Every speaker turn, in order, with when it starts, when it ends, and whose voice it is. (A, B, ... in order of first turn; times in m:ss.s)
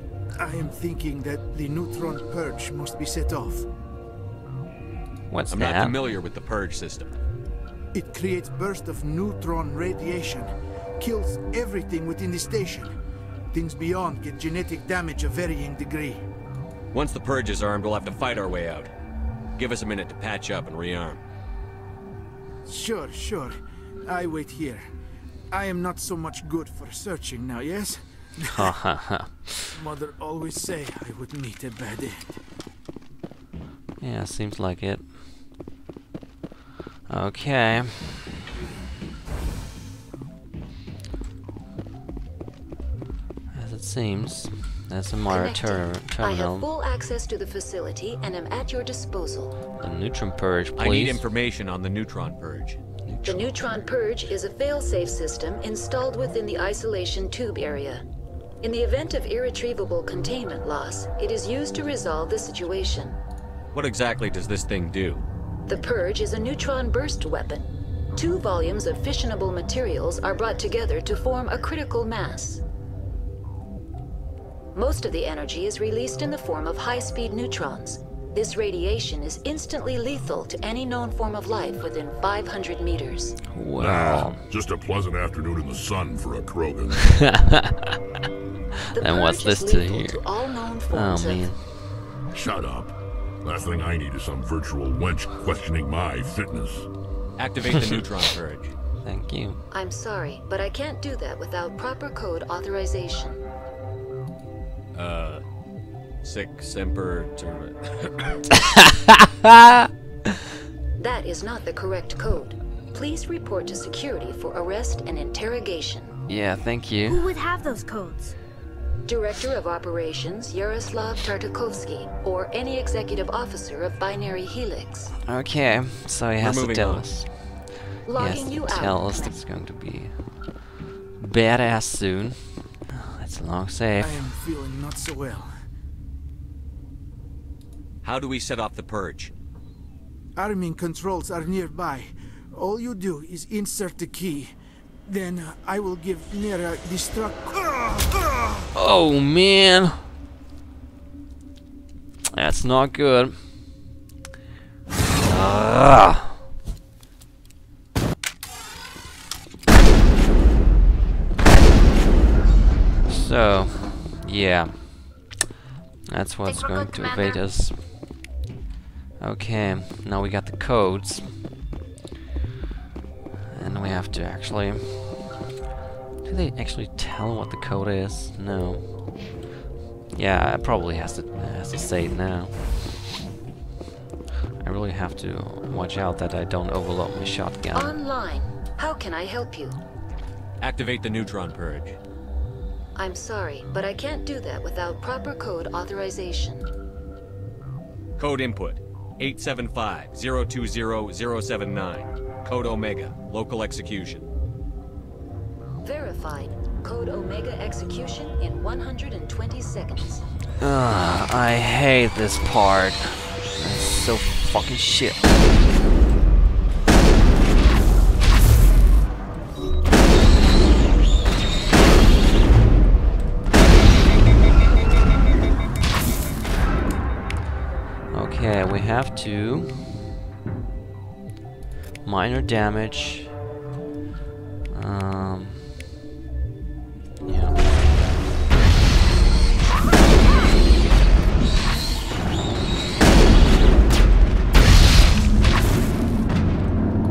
0:00.4-0:03.6 A
0:05.3-0:06.0 B
0:05.5-0:07.1 C
0:07.9-0:10.5 A
0:11.0-0:12.9 A
0:13.5-0:16.2 A
0:16.9-0:18.9 C
0:19.6-0:21.2 C
0:22.6-0:24.8 A
0:25.5-0:28.8 A
0:28.5-0:29.5 B
0:29.7-0:32.4 A
0:34.0-0:35.1 B
0:37.1-0:38.3 B
0:43.5-0:46.7 B
0:45.3-0:49.6 D
0:49.8-0:51.2 B
0:50.8-0:52.8 C
0:53.0-0:53.7 B
0:53.2-0:58.0 D
0:58.6-1:03.2 D
1:03.7-1:05.2 C
1:05.7-1:12.6 D
1:14.7-1:23.4 D
1:23.5-1:24.4 B
1:23.8-1:27.2 E
1:28.9-1:31.5 D
1:29.0-1:32.0 B
1:32.3-1:36.9 E
1:37.4-1:38.7 C
1:39.0-1:39.6 B
1:39.7-1:43.4 D
1:44.9-1:45.4 C
1:46.2-1:48.4 C
1:49.4-1:49.9 B
1:51.0-1:56.2 D
1:56.3-1:57.3 B
1:57.1-1:58.3 F
1:59.1-2:05.1 D
2:05.3-2:14.2 B
2:06.4-2:07.1 C
2:08.0-2:09.4 D
2:14.0-2:15.5 A
2:18.0-2:19.3 C
2:20.4-2:24.5 A
2:25.0-2:28.6 A
2:28.7-2:30.0 B
2:32.3-2:33.8 B
2:35.2-2:36.4 B
2:43.0-2:45.2 B
2:46.1-2:48.0 B
2:46.5-2:47.4 F
2:49.2-2:51.4 B
2:53.5-2:55.4 B
2:56.2-2:59.2 B
3:00.1-3:02.8 B
3:04.6-3:08.0 B
3:07.7-3:09.8 D
3:10.6-3:12.0 C
3:13.0-3:16.7 D
3:18.2-3:24.2 C
3:25.8-3:30.2 D
3:30.6-3:35.5 B
3:48.1-3:50.0 B
3:52.0-3:53.3 B
3:54.7-3:55.7 B
3:57.2-3:57.7 B